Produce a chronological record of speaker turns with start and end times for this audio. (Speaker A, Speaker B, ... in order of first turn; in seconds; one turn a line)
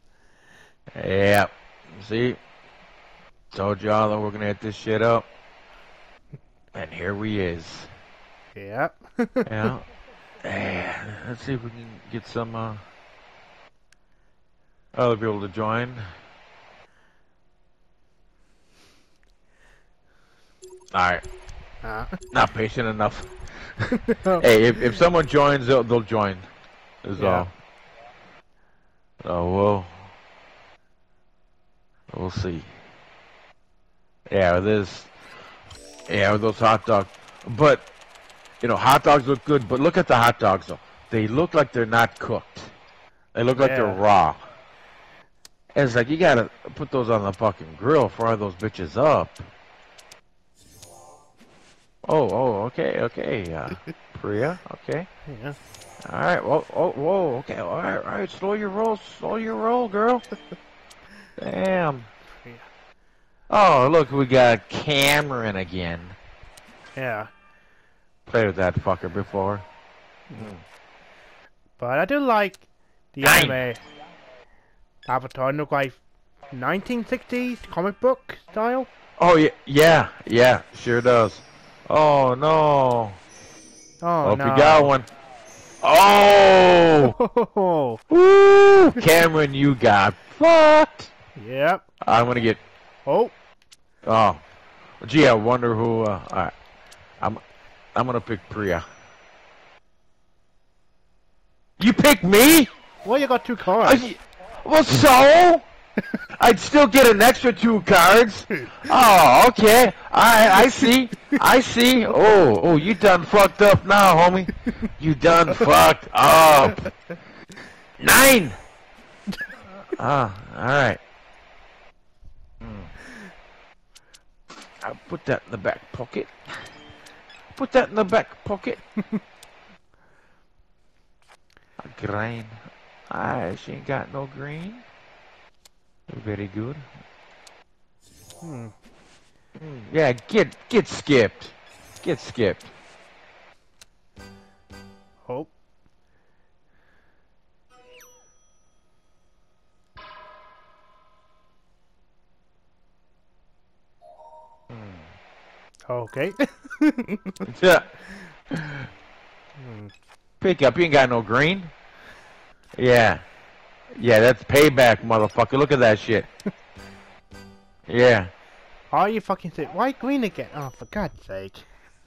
Speaker A: 0.9-2.4
Speaker A: 3.5-5.3
Speaker A: 6.7-7.9
Speaker B: 8.6-9.7
Speaker A: 9.5-9.9
Speaker A: 10.4-12.8
Speaker A: 14.9-16.1
Speaker A: 20.9-21.2
Speaker B: 21.8-22.2
Speaker A: 22.3-23.3
Speaker B: 23.9-25.0
Speaker A: 24.3-26.5
Speaker A: 27.0-27.5
Speaker B: 27.2-27.5
Speaker A: 29.2-30.1
Speaker A: 32.1-32.7
Speaker A: 34.3-35.1
Speaker A: 36.1-37.9
Speaker A: 38.6-42.7
Speaker A: 43.3-44.4
Speaker B: 43.6-44.0
Speaker A: 45.8-49.5
Speaker A: 52.0-55.1
Speaker B: 55.3-55.6
Speaker A: 56.0-60.2
Speaker A: 61.4-62.1
Speaker B: 62.3-62.7
Speaker A: 63.5-66.2
Speaker B: 67.0-67.3
Speaker A: 68.3-69.7
Speaker B: 70.3-70.5
Speaker A: 70.4-70.6
Speaker B: 71.8-73.8
Speaker A: 73.2-73.6
Speaker B: 75.1-78.9
Speaker A: 79.2-83.2
Speaker B: 84.0-84.9
Speaker A: 84.2-85.1
Speaker A: 85.8-87.2
Speaker B: 87.0-88.0
Speaker A: 88.1-91.1
Speaker B: 91.4-91.8
Speaker A: 92.0-92.6
Speaker B: 93.1-93.3
Speaker A: 94.0-94.4
Speaker A: 95.0-96.5
Speaker A: 98.0-98.8
Speaker A: 101.8-102.7
Speaker B: 103.0-104.0
Speaker A: 103.8-105.7
Speaker A: 106.4-116.9
Speaker A: 118.0-118.6
Speaker A: 119.9-121.0
Speaker A: 122.6-122.9
Speaker A: 124.8-126.7
Speaker A: 127.5-128.8
Speaker A: 131.8-134.8
Speaker A: 136.1-136.9
Speaker B: 138.4-138.7
Speaker A: 139.6-142.7
Speaker B: 145.2-145.5
Speaker A: 154.7-155.1
Speaker B: 155.9-157.5
Speaker A: 157.4-158.0
Speaker A: 158.5-158.9
Speaker B: 159.6-159.9
Speaker A: 160.4-161.7
Speaker A: 162.8-163.2
Speaker A: 163.9-166.3
Speaker A: 167.9-168.3
Speaker B: 168.9-171.7